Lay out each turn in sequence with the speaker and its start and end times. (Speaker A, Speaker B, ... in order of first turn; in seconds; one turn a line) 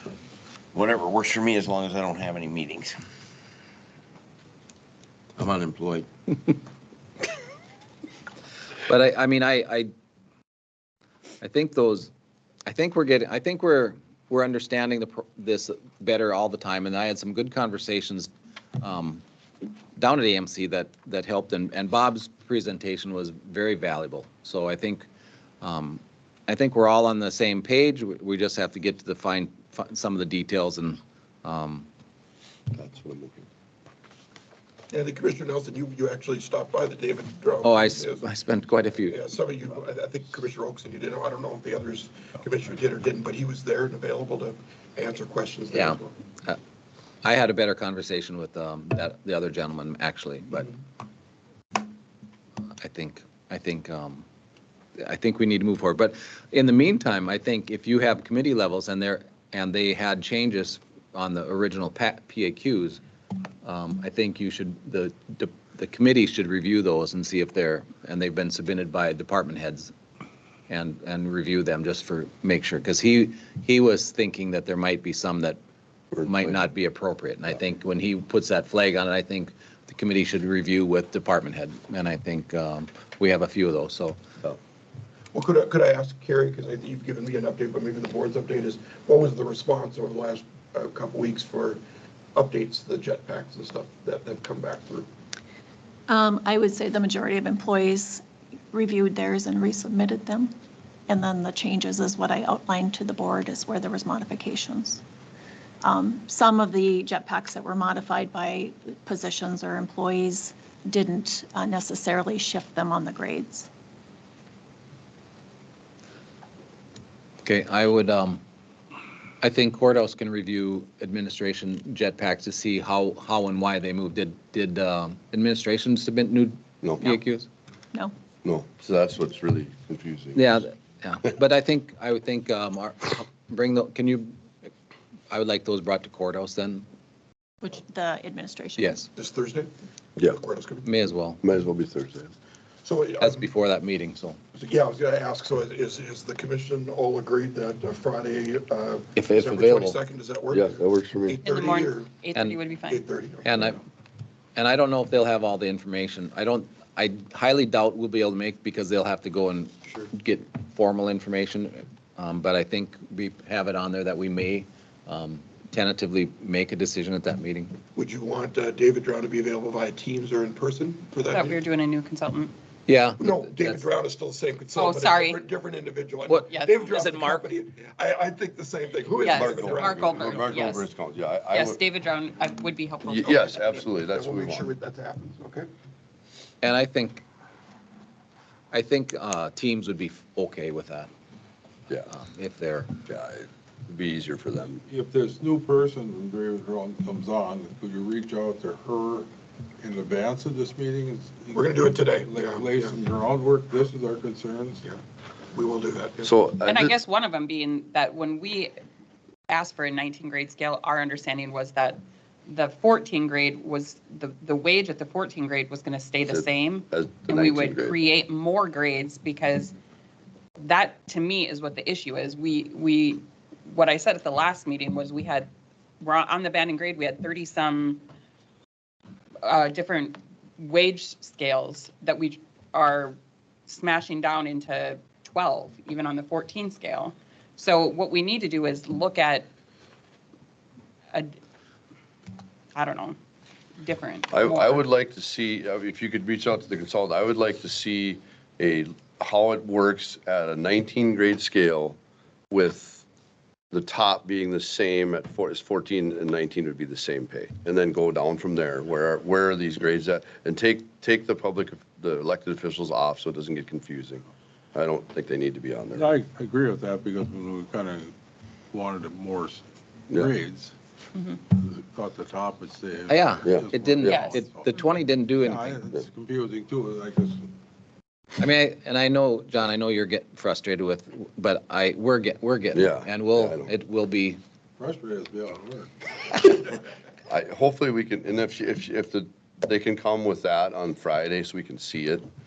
Speaker A: 0.7-3.0
Speaker A: 5.4-6.1
Speaker B: 8.9-9.9
Speaker B: 11.4-12.1
Speaker B: 12.7-19.2
Speaker B: 20.0-25.1
Speaker B: 25.6-31.9
Speaker C: 32.7-33.5
Speaker D: 34.9-38.3
Speaker B: 37.6-39.2
Speaker D: 39.0-46.1
Speaker B: 45.7-46.6
Speaker B: 47.2-50.7
Speaker B: 52.8-54.2
Speaker B: 55.0-63.0
Speaker B: 63.6-69.9
Speaker B: 70.7-75.6
Speaker C: 76.1-76.7
Speaker B: 76.2-84.2
Speaker D: 85.3-91.8
Speaker D: 92.3-95.1
Speaker E: 96.1-100.5
Speaker E: 101.1-105.0
Speaker E: 105.8-113.7
Speaker B: 117.4-118.4
Speaker B: 119.4-127.5
Speaker C: 126.8-127.1
Speaker C: 128.4-130.6
Speaker B: 130.3-134.3
Speaker B: 135.3-136.8
Speaker E: 137.6-139.0
Speaker B: 138.8-139.1
Speaker D: 139.1-139.7
Speaker D: 140.2-140.9
Speaker B: 140.8-141.4
Speaker C: 141.4-142.3
Speaker D: 142.8-143.5
Speaker B: 143.2-144.4
Speaker D: 144.5-152.1
Speaker B: 149.2-150.0
Speaker C: 150.5-151.4
Speaker F: 151.4-153.0
Speaker D: 152.9-153.8
Speaker B: 153.4-153.8
Speaker B: 154.6-167.8
Speaker D: 167.9-171.6
Speaker F: 171.3-172.5
Speaker B: 172.9-173.8
Speaker D: 173.2-180.0
Speaker F: 174.8-175.4
Speaker B: 176.3-177.4
Speaker F: 176.5-176.8
Speaker F: 179.2-180.9
Speaker C: 179.3-181.8
Speaker F: 181.5-183.8
Speaker C: 183.0-184.7
Speaker D: 183.8-185.7
Speaker B: 186.6-187.2
Speaker B: 188.7-191.1
Speaker B: 192.0-192.9
Speaker C: 193.1-194.8
Speaker G: 194.9-199.3
Speaker G: 199.8-204.8
Speaker D: 201.5-203.0
Speaker D: 205.5-206.3
Speaker C: 206.2-206.9
Speaker F: 206.7-208.8
Speaker F: 209.5-219.7
Speaker C: 216.2-218.0
Speaker F: 220.6-225.5
Speaker F: 226.0-228.0
Speaker F: 229.4-239.5
Speaker F: 242.7-243.2
Speaker F: 243.8-244.8
Speaker C: 244.3-252.0
Speaker C: 252.5-253.0
Speaker C: 253.7-266.1
Speaker G: 265.9-268.1
Speaker G: 268.7-270.7
Speaker G: 271.5-277.5
Speaker B: 273.1-275.8
Speaker C: 273.4-274.2
Speaker B: 278.4-284.4
Speaker C: 282.7-283.7
Speaker G: 284.8-285.9
Speaker C: 287.3-292.3